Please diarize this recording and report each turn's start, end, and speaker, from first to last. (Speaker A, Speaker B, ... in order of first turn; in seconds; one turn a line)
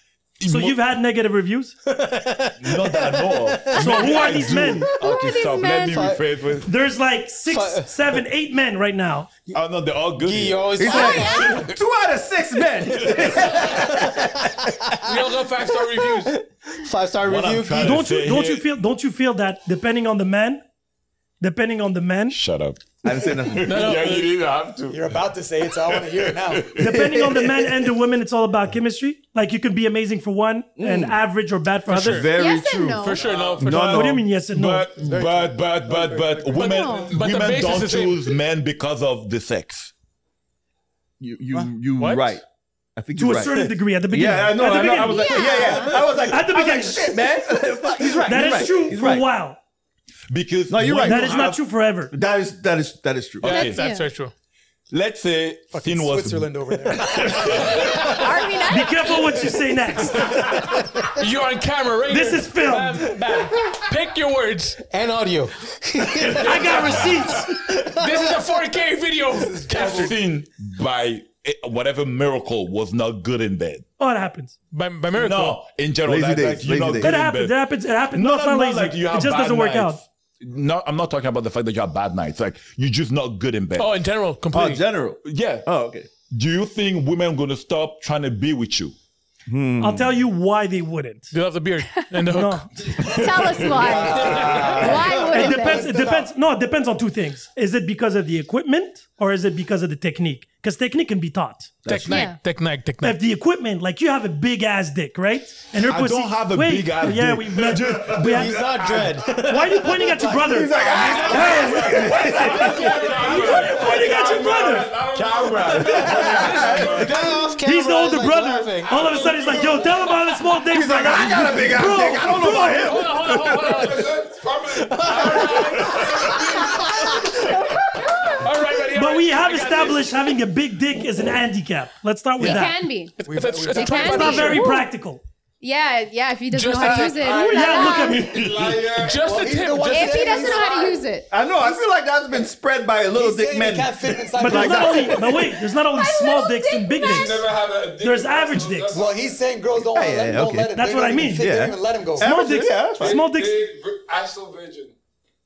Speaker A: 0.4-0.8
Speaker B: 0.5-1.8
Speaker C: 1.9-6.2
Speaker A: 2.6-6.7
Speaker B: 3.7-4.9
Speaker D: 5.0-6.0
Speaker B: 6.6-9.3
Speaker C: 7.4-8.1
Speaker A: 9.5-11.7
Speaker C: 10.2-11.6
Speaker E: 10.8-15.0
Speaker D: 10.8-11.7
Speaker A: 13.0-13.7
Speaker C: 13.8-14.2
Speaker F: 15.0-16.4
Speaker C: 16.1-18.0
Speaker A: 17.2-18.6
Speaker B: 17.8-20.6
Speaker B: 21.4-22.4
Speaker A: 22.3-25.2
Speaker E: 23.0-24.1
Speaker F: 23.6-24.3
Speaker G: 24.9-26.8
Speaker A: 25.8-27.2
Speaker B: 26.8-32.3
Speaker E: 27.2-27.7
Speaker E: 30.8-31.2
Speaker F: 31.9-32.3
Speaker E: 31.9-34.2
Speaker D: 32.3-33.5
Speaker F: 33.0-34.1
Speaker H: 33.2-33.6
Speaker A: 33.6-39.9
Speaker B: 33.8-34.9
Speaker G: 35.0-36.9
Speaker F: 36.5-38.3
Speaker D: 36.6-37.2
Speaker E: 41.2-42.4
Speaker F: 42.0-42.4
Speaker E: 43.0-49.3
Speaker B: 43.1-47.2
Speaker D: 44.9-46.0
Speaker B: 48.2-49.6
Speaker A: 50.3-51.6
Speaker E: 50.7-51.5
Speaker B: 51.0-52.1
Speaker E: 52.1-53.5
Speaker A: 53.4-53.8
Speaker F: 53.4-54.3
Speaker D: 53.5-54.1
Speaker A: 54.9-58.2
Speaker G: 55.7-57.8
Speaker F: 57.7-58.1
Speaker D: 58.0-59.3
Speaker B: 58.7-60.4
Speaker F: 60.5-64.8
Speaker B: 62.1-63.1
Speaker C: 64.9-68.5
Speaker F: 66.3-67.1
Speaker B: 66.4-67.5
Speaker F: 67.7-70.1
Speaker G: 69.3-70.1
Speaker A: 69.8-73.8
Speaker B: 74.0-74.5
Speaker F: 74.7-75.6
Speaker A: 75.1-84.0
Speaker E: 76.0-77.2
Speaker B: 77.0-80.0
Speaker F: 83.8-84.9
Speaker E: 84.5-86.1
Speaker A: 85.2-85.7
Speaker A: 86.3-88.9
Speaker E: 89.5-90.2
Speaker B: 89.8-91.3
Speaker F: 91.3-93.2
Speaker B: 92.3-92.7
Speaker D: 93.0-95.9
Speaker A: 93.0-94.8
Speaker F: 93.9-94.9
Speaker G: 94.0-96.3
Speaker B: 95.2-101.8
Speaker E: 101.8-102.3
Speaker F: 101.9-103.2
Speaker D: 102.0-102.4
Speaker B: 103.0-108.7
Speaker A: 105.8-108.9
Speaker C: 108.2-110.2
Speaker H: 108.9-109.2
Speaker B: 109.2-115.0
Speaker G: 110.2-111.8
Speaker E: 110.4-113.0
Speaker C: 110.9-111.5
Speaker H: 111.0-117.2
Speaker F: 112.8-113.3
Speaker A: 113.3-113.9
Speaker A: 115.1-116.4
Speaker C: 115.5-119.0
Speaker F: 116.2-117.6
Speaker E: 116.2-116.9
Speaker B: 117.6-123.0
Speaker H: 118.8-120.1
Speaker E: 120.7-124.0
Speaker F: 122.8-124.2
Speaker H: 123.7-127.1
Speaker C: 124.9-127.5
Speaker F: 125.0-127.5
Speaker F: 128.2-130.3
Speaker B: 128.9-132.8
Speaker D: 132.4-134.9
Speaker F: 133.2-134.8
Speaker G: 133.2-134.6
Speaker B: 134.0-135.2
Speaker D: 135.6-138.4
Speaker F: 136.5-138.2
Speaker B: 137.2-138.5
Speaker H: 138.2-139.3
Speaker G: 138.4-141.1
Speaker F: 138.9-140.6
Speaker D: 139.8-141.3
Speaker E: 141.3-145.4
Speaker G: 143.1-145.6
Speaker B: 144.4-148.9
Speaker D: 145.8-147.5
Speaker H: 147.0-149.5
Speaker G: 148.9-152.3
Speaker E: 149.9-153.2
Speaker B: 150.7-151.5
Speaker B: 152.2-153.7
Speaker H: 152.9-154.9